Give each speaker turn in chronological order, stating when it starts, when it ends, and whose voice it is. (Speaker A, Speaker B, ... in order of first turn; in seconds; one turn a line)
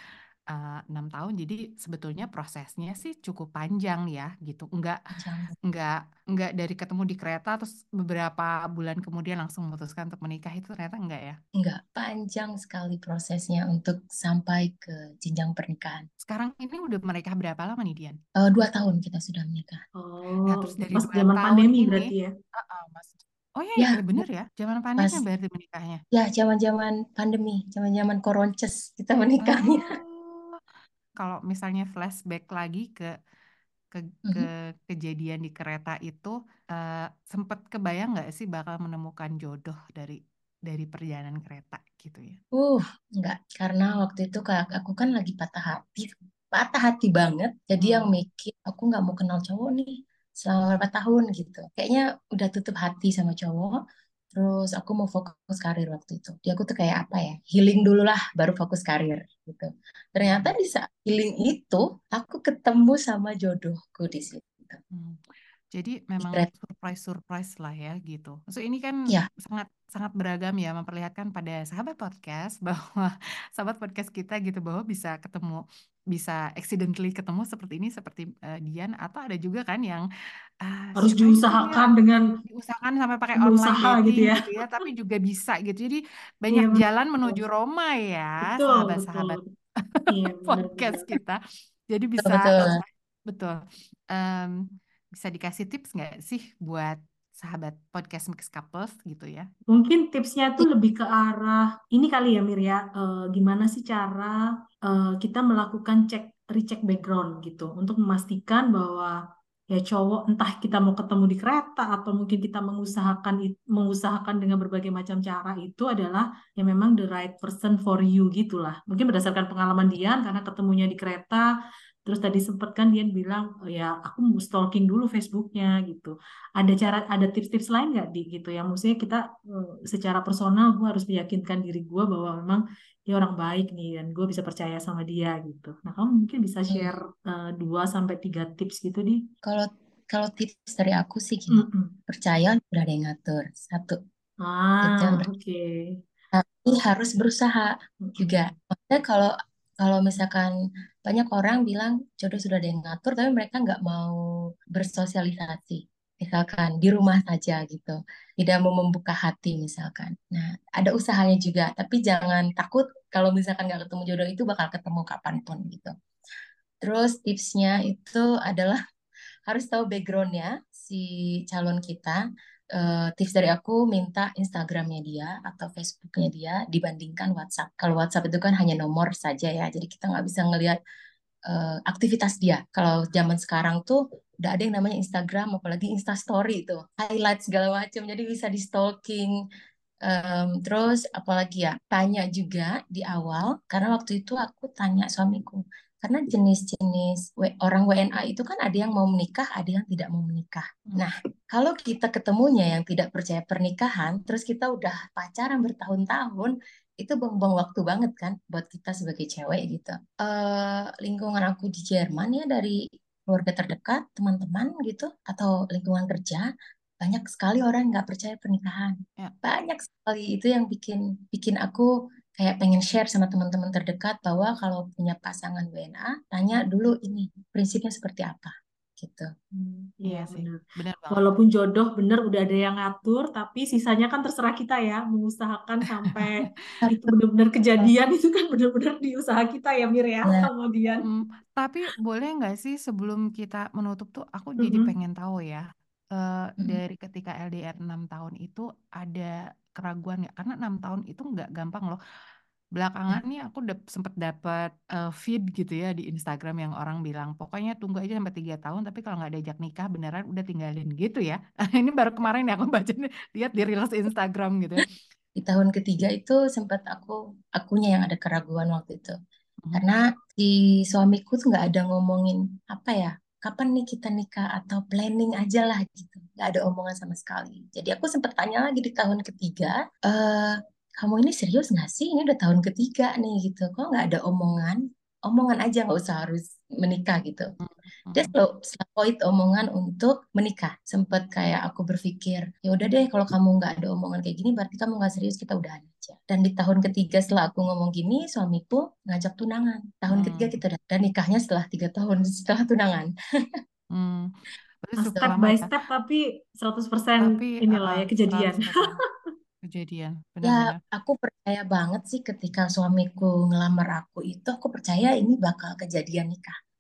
Speaker A: 0.5-5.0
Speaker B: 5.1-5.5
Speaker A: 5.7-11.4
Speaker B: 11.6-16.1
Speaker A: 16.2-18.2
Speaker B: 18.4-19.8
Speaker C: 20.0-22.3
Speaker A: 20.5-26.0
Speaker B: 23.8-24.2
Speaker B: 26.1-29.9
Speaker A: 29.4-30.6
Speaker A: 31.2-33.1
Speaker A: 33.9-42.4
Speaker B: 42.5-53.8
Speaker A: 47.8-48.1
Speaker B: 54.3-64.8
Speaker A: 60.2-60.5
Speaker A: 64.9-65.2
Speaker A: 65.7-80.0
Speaker B: 66.2-66.5
Speaker A: 80.6-81.9
Speaker C: 81.0-82.2
Speaker A: 82.5-89.4
Speaker C: 83.4-84.5
Speaker C: 86.5-87.4
Speaker C: 88.4-89.4
Speaker A: 90.0-91.4
Speaker C: 90.1-91.1
Speaker A: 91.9-93.6
Speaker B: 92.2-92.8
Speaker A: 94.1-94.6
Speaker A: 95.1-99.5
Speaker C: 99.7-104.3
Speaker C: 104.9-109.2
Speaker C: 109.7-121.5
Speaker C: 122.1-139.2
Speaker B: 139.4-144.0
Speaker C: 141.5-141.9
Speaker C: 144.4-145.7
Speaker B: 144.8-145.3
Speaker B: 146.3-150.5
Speaker B: 151.1-154.2
Speaker B: 154.8-165.9
Speaker B: 166.8-168.8
Speaker B: 169.5-172.2
Speaker B: 172.8-180.8
Speaker B: 181.5-189.3
Speaker B: 190.1-216.5
Speaker B: 217.0-229.3
Speaker C: 229.5-230.6
Speaker A: 230.1-231.4
Speaker C: 231.1-241.1
Speaker A: 236.0-236.3
Speaker A: 241.0-245.6
Speaker C: 244.6-244.9
Speaker A: 246.2-252.0
Speaker A: 252.8-264.9
Speaker B: 265.4-269.2
Speaker A: 269.6-269.9
Speaker B: 269.7-287.5
Speaker A: 287.6-288.3
Speaker B: 288.1-303.1
Speaker A: 300.1-300.6
Speaker A: 303.9-304.3
Speaker A: 304.8-305.7
Speaker C: 305.1-308.9
Speaker A: 307.2-309.0
Speaker A: 309.6-310.8
Speaker B: 310.4-316.5